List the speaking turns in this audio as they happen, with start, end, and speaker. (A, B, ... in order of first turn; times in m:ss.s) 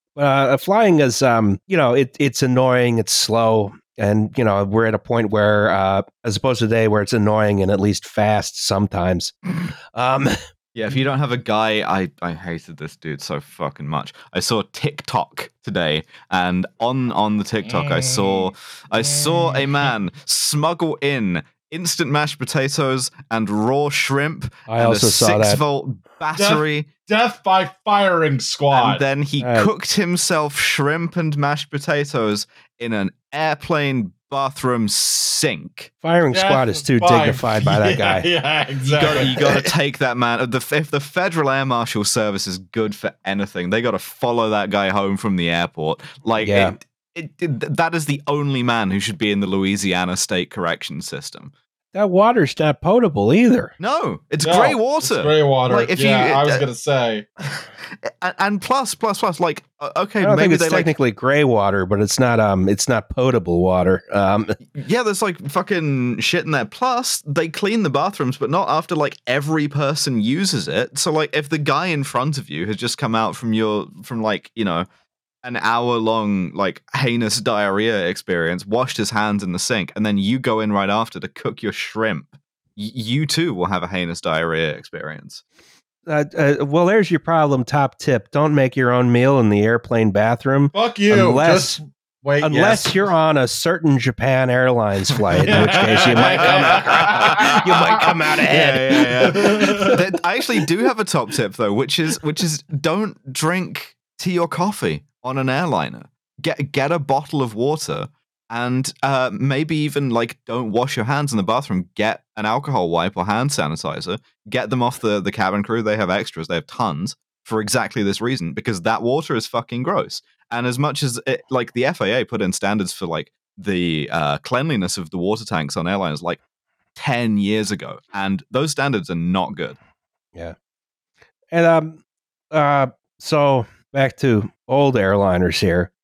0:00.2-0:09.3 A
0:09.9-0:10.4 A
0:10.8-0:26.9 B
0:17.6-0:18.5 C
0:19.0-0:19.7 C
0:24.7-0:25.6 A
0:26.4-0:29.0 C
0:28.7-0:35.9 B
0:29.4-0:29.7 A
0:36.0-0:38.3 A
0:36.3-0:39.3 C
0:38.9-0:51.5 B
0:46.4-0:46.8 A
0:51.9-0:53.7 A
0:53.8-0:56.6 B
0:54.4-0:57.3 C
0:58.0-1:00.9 B
1:00.2-1:04.6 A
1:04.7-1:14.9 B
1:15.4-1:25.4 B
1:26.1-1:31.8 A
1:30.7-1:33.1 C
1:32.4-1:39.1 A
1:35.3-2:06.4 B
1:35.4-1:40.0 C
2:07.0-2:09.8 B
2:11.5-2:15.9 A